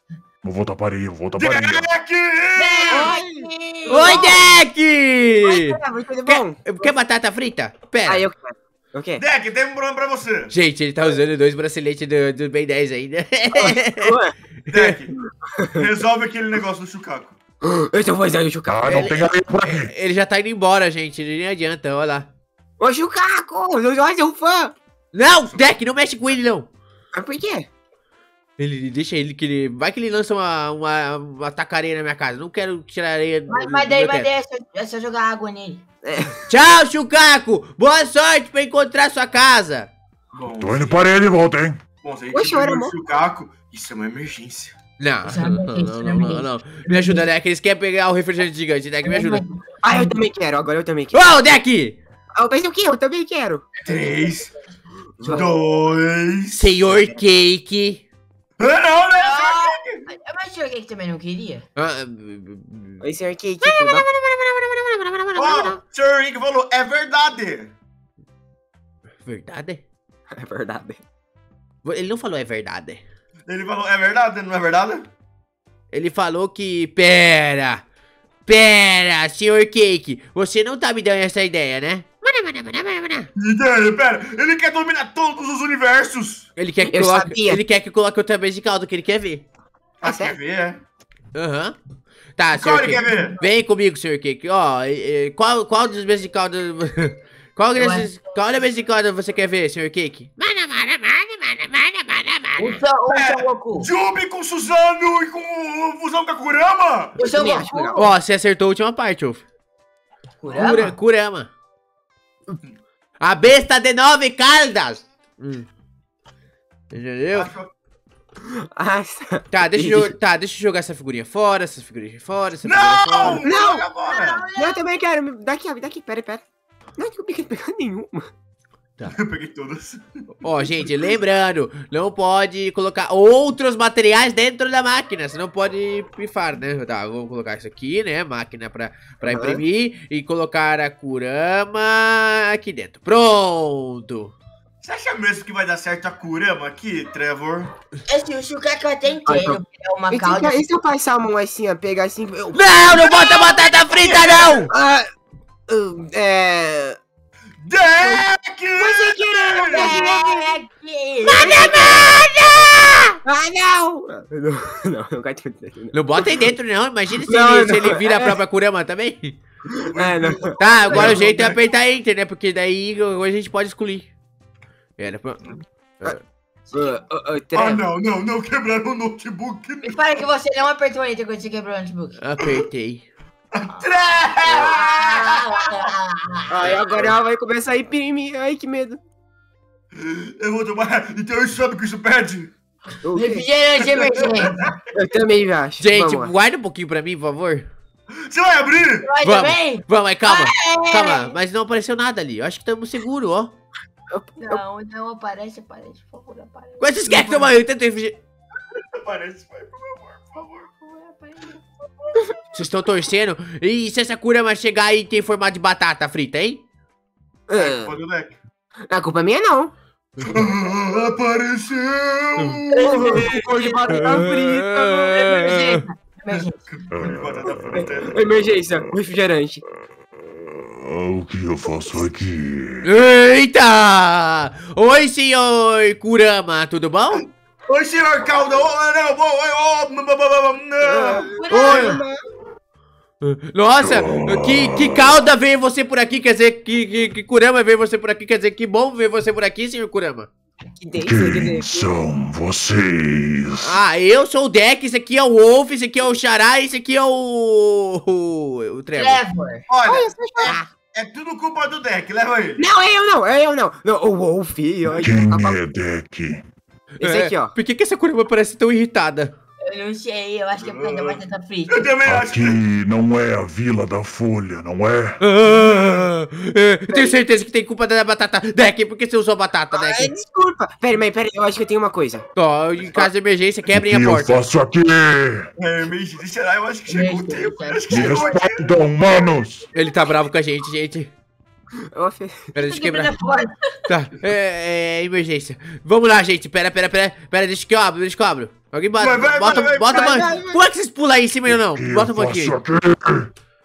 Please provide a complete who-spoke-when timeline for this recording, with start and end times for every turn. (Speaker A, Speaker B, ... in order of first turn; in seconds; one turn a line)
Speaker A: 0.4-1.9
Speaker B: 1.4-3.1
Speaker C: 2.5-4.4
Speaker D: 2.9-4.4
Speaker E: 3.9-8.3
Speaker D: 5.4-6.9
Speaker D: 8.1-9.2
Speaker B: 9.2-10.5
Speaker E: 10.5-14.9
Speaker D: 13.6-14.3
Speaker B: 14.7-15.1
Speaker D: 15.4-15.9
Speaker B: 15.8-17.4
Speaker D: 17.6-18.9
Speaker A: 18.7-19.9
Speaker E: 18.9-22.3
Speaker D: 22.8-24.7
Speaker E: 25.1-26.7
Speaker B: 25.5-25.7
Speaker D: 27.1-27.6
Speaker E: 28.6-34.3
Speaker C: 33.5-35.8
Speaker D: 36.0-36.4
Speaker E: 36.5-39.9
Speaker B: 40.3-41.1
Speaker A: 40.6-41.8
Speaker B: 42.0-44.8
Speaker D: 42.3-43.0
Speaker E: 45.0-49.4
Speaker C: 45.2-47.2
Speaker C: 49.0-50.2
Speaker D: 49.8-51.2
Speaker E: 51.1-52.0
Speaker D: 52.4-53.6
Speaker B: 53.8-54.5
Speaker D: 55.2-55.5
Speaker B: 55.4-56.7
Speaker E: 56.5-58.0
Speaker B: 58.6-60.0
Speaker C: 59.2-61.6
Speaker E: 61.8-63.0
Speaker D: 63.0-64.0
Speaker E: 63.6-65.8
Speaker B: 65.3-67.7
Speaker E: 69.2-69.8
Speaker D: 70.3-71.0
Speaker E: 71.8-73.0
Speaker B: 73.5-75.1
Speaker E: 75.9-77.8
Speaker E: 78.5-83.3
Speaker B: 83.3-86.5
Speaker E: 86.5-89.4
Speaker D: 86.8-87.6
Speaker B: 90.0-90.8
Speaker D: 90.0-90.3
Speaker E: 91.3-91.8
Speaker E: 92.4-102.8
Speaker B: 92.5-93.4
Speaker C: 93.0-93.4
Speaker C: 97.8-98.2
Speaker C: 102.6-103.9
Speaker B: 103.1-107.2
Speaker C: 107.2-108.1
Speaker D: 107.3-108.0
Speaker E: 108.0-109.4
Speaker C: 110.4-110.9
Speaker E: 110.5-111.5
Speaker E: 113.2-115.7
Speaker E: 116.9-117.5
Speaker B: 117.3-117.7
Speaker D: 118.5-120.1
Speaker E: 119.5-123.5
Speaker B: 122.6-124.4
Speaker D: 123.2-123.8
Speaker C: 123.5-124.9
Speaker D: 124.5-126.4
Speaker D: 127.0-128.3
Speaker B: 129.1-130.9
Speaker E: 130.4-144.3
Speaker D: 139.2-139.6
Speaker B: 144.8-147.7
Speaker C: 148.1-150.7
Speaker D: 149.2-149.6
Speaker D: 150.1-152.6
Speaker E: 152.5-154.7
Speaker B: 152.9-154.7
Speaker D: 154.7-155.1
Speaker D: 155.7-157.0
Speaker B: 157.6-160.1
Speaker D: 158.0-160.5
Speaker C: 159.7-161.7
Speaker E: 161.3-163.2
Speaker D: 161.4-162.1
Speaker D: 163.2-166.4
Speaker E: 165.9-169.4
Speaker D: 167.2-168.4
Speaker D: 169.7-171.2
Speaker B: 169.8-171.6
Speaker E: 170.6-174.1
Speaker E: 175.0-176.2
Speaker C: 176.7-177.0
Speaker D: 176.7-177.8
Speaker B: 177.5-180.0
Speaker C: 179.8-182.2
Speaker E: 182.2-183.1
Speaker B: 183.5-185.9
Speaker C: 184.4-186.8
Speaker D: 186.5-189.0
Speaker B: 189.9-192.5
Speaker D: 193.0-193.4
Speaker C: 193.1-194.7
Speaker B: 193.8-194.7
Speaker D: 194.9-196.3
Speaker E: 195.8-197.7
Speaker B: 198.3-199.1
Speaker C: 199.0-201.3
Speaker E: 199.2-203.5
Speaker D: 204.1-204.6
Speaker C: 204.4-207.5
Speaker E: 206.8-208.2
Speaker B: 209.0-210.8
Speaker C: 210.8-211.6
Speaker E: 212.5-216.6
Speaker D: 217.5-218.0
Speaker B: 217.5-218.4
Speaker D: 218.9-219.7
Speaker B: 220.2-223.4
Speaker C: 222.7-223.9
Speaker D: 222.8-225.6
Speaker E: 223.9-225.8
Speaker C: 225.2-227.0
Speaker B: 226.3-228.4
Speaker A: 226.9-227.9
Speaker D: 227.7-229.6
Speaker A: 230.2-232.8
Speaker E: 232.8-237.2
Speaker B: 237.2-241.4
Speaker D: 240.8-242.2
Speaker C: 241.4-242.0
Speaker E: 241.5-242.0
Speaker E: 243.2-250.3
Speaker A: 243.8-245.2
Speaker D: 250.8-251.9
Speaker A: 251.0-253.8
Speaker E: 253.6-259.2
Speaker C: 258.9-259.7
Speaker B: 259.7-262.7
Speaker D: 259.9-260.5
Speaker D: 262.6-265.6
Speaker A: 265.0-266.4
Speaker E: 267.0-269.3
Speaker D: 267.0-267.5
Speaker C: 269.6-271.9
Speaker B: 270.6-272.6
Speaker A: 272.1-275.2
Speaker E: 275.2-280.1
Speaker B: 275.5-276.0
Speaker D: 276.9-277.1
Speaker D: 279.8-282.2
Speaker E: 282.4-284.4
Speaker A: 283.7-285.5
Speaker B: 285.6-288.8
Speaker C: 286.9-288.3
Speaker A: 287.9-289.6
Speaker E: 289.7-291.1
Speaker D: 291.8-292.5
Speaker E: 292.5-293.1
Speaker C: 292.6-293.5
Speaker E: 293.9-302.6
Speaker B: 299.0-300.4
Speaker D: 299.9-300.6
Speaker A: 301.5-303.3